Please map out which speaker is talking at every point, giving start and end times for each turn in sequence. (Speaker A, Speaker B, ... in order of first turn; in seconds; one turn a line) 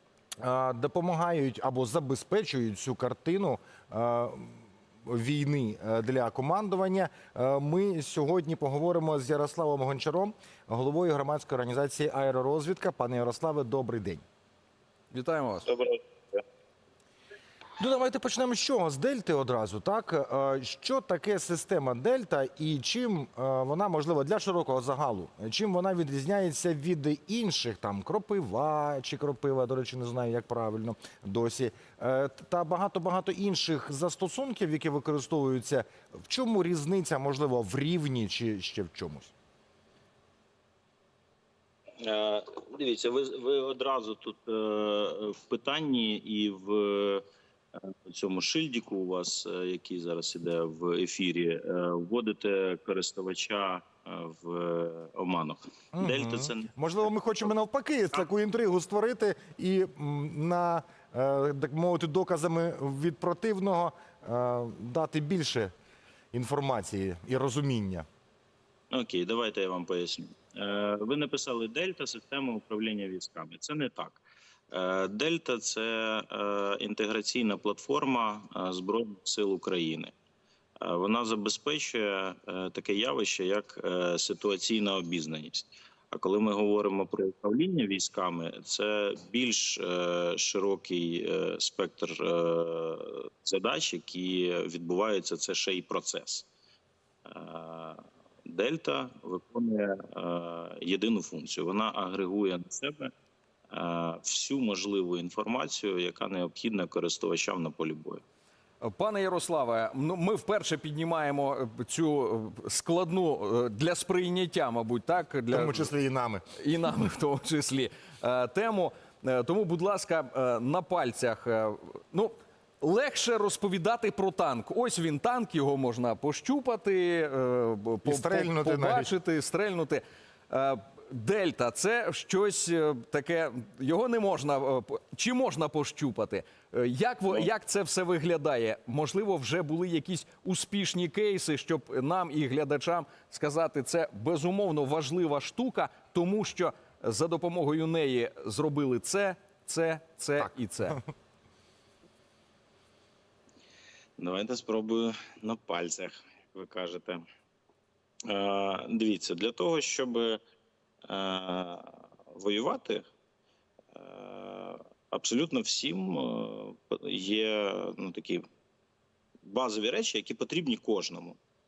Speaker A: 0.4-14.2
Speaker B: 15.1-15.7
Speaker C: 15.6-16.4
Speaker A: 17.8-39.3
Speaker C: 42.0-47.2
Speaker C: 48.1-57.5
Speaker A: 55.9-65.7
Speaker A: 66.3-68.0
Speaker C: 68.9-80.1
Speaker C: 80.8-96.5
Speaker C: 97.2-103.1
Speaker C: 103.7-108.2
Speaker B: 108.8-115.9
Speaker A: 115.5-116.5
Speaker B: 116.5-151.0
Speaker A: 128.0-129.1
Speaker C: 154.2-157.2
Speaker C: 158.2-160.4
Speaker C: 161.1-163.0
Speaker C: 163.9-168.4
Speaker C: 169.4-171.4